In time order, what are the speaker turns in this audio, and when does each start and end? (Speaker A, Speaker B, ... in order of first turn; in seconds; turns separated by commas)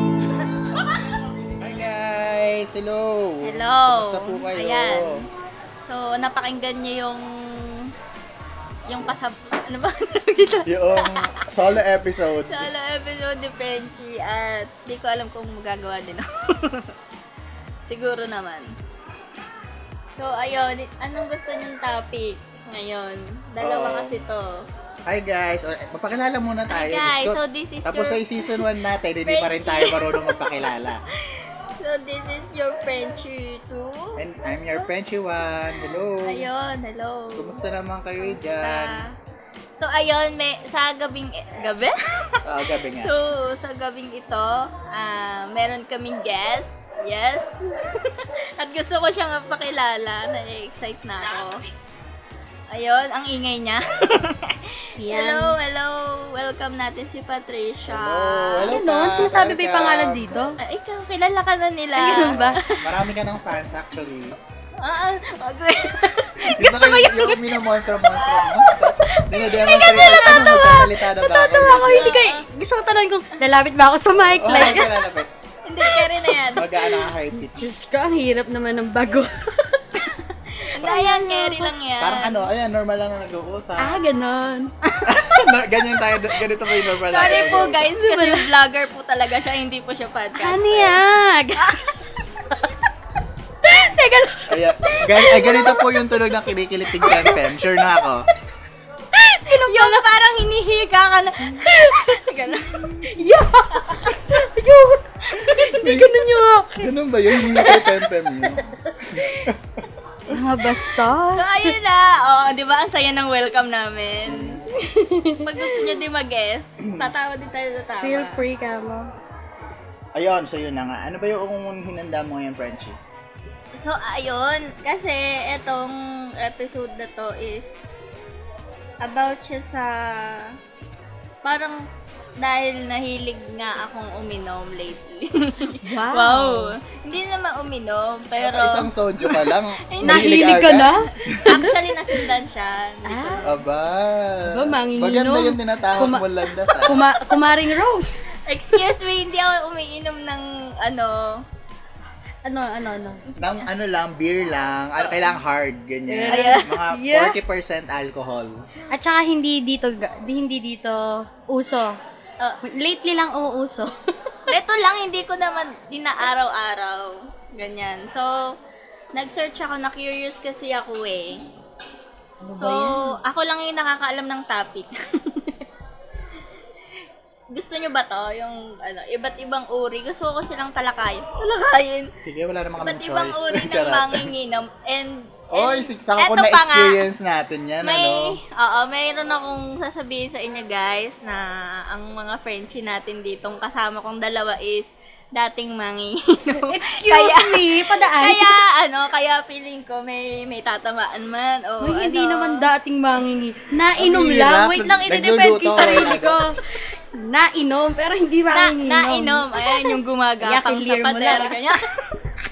Speaker A: 0.7-5.2, Speaker B: 3.4-5.2, Speaker B: 5.8-7.9, Speaker B: 8.8-11.6, Speaker A: 10.7-12.7, Speaker B: 12.5-16.9, Speaker B: 17.9-18.7, Speaker B: 20.1-24.6, Speaker A: 23.6-24.2, Speaker A: 25.1-31.0, Speaker B: 26.7-28.7, Speaker B: 29.2-34.2, Speaker A: 34.2-36.5, Speaker B: 36.2-37.6, Speaker A: 37.4-39.0, Speaker B: 38.2-39.1, Speaker B: 39.7-51.6, Speaker A: 42.4-43.1, Speaker B: 52.7-58.8, Speaker C: 55.0-55.5, Speaker A: 57.9-60.4, Speaker C: 58.6-60.6, Speaker B: 60.6-62.9, Speaker C: 62.0-62.6, Speaker A: 62.1-64.4, Speaker B: 64.8-67.5, Speaker A: 66.4-72.2, Speaker C: 66.6-67.4, Speaker B: 68.1-70.6, Speaker C: 69.5-75.0, Speaker B: 71.6-72.4, Speaker A: 74.3-75.3, Speaker B: 75.7-76.8, Speaker A: 76.5-77.8, Speaker C: 77.3-81.7, Speaker B: 80.6-82.4, Speaker A: 82.0-84.0, Speaker C: 83.8-85.3, Speaker A: 85.0-87.9, Speaker B: 87.0-91.0, Speaker C: 87.9-88.5, Speaker C: 90.4-91.9, Speaker C: 92.5-92.7, Speaker C: 93.6-96.1, Speaker A: 94.5-98.3, Speaker C: 96.9-97.5, Speaker C: 99.3-100.0, Speaker B: 99.4-103.0, Speaker C: 101.4-102.2, Speaker C: 103.0-108.6, Speaker A: 105.5-106.2, Speaker A: 106.8-109.9, Speaker C: 109.2-109.5, Speaker C: 110.3-111.8, Speaker B: 111.4-114.7, Speaker A: 114.2-114.6, Speaker C: 114.7-116.0, Speaker B: 115.4-118.4, Speaker A: 116.8-117.1, Speaker C: 118.0-119.1, Speaker A: 120.1-123.0, Speaker B: 123.8-127.9, Speaker B: 129.0-130.6, Speaker B: 131.4-131.9, Speaker B: 132.4-140.6, Speaker C: 135.8-136.7, Speaker A: 138.4-141.5, Speaker C: 140.0-142.3, Speaker B: 141.3-143.5, Speaker C: 143.1-143.4, Speaker A: 143.4-147.0, Speaker C: 144.5-148.2, Speaker B: 148.5-151.4, Speaker C: 152.4-153.2, Speaker A: 153.3-158.5, Speaker C: 156.1-157.4, Speaker B: 156.3-156.7, Speaker C: 158.9-162.0, Speaker C: 162.6-164.5, Speaker B: 164.5-168.3, Speaker B: 169.1-171.4, Speaker C: 172.4-173.2, Speaker B: 172.5-175.6, Speaker B: 177.5-182.1, Speaker A: 182.2-184.3, Speaker B: 182.8-187.0, Speaker A: 185.5-188.4, Speaker B: 187.8-202.7, Speaker C: 196.6-198.5, Speaker C: 201.8-211.6, Speaker A: 203.9-206.4, Speaker B: 205.7-206.1, Speaker B: 208.5-212.1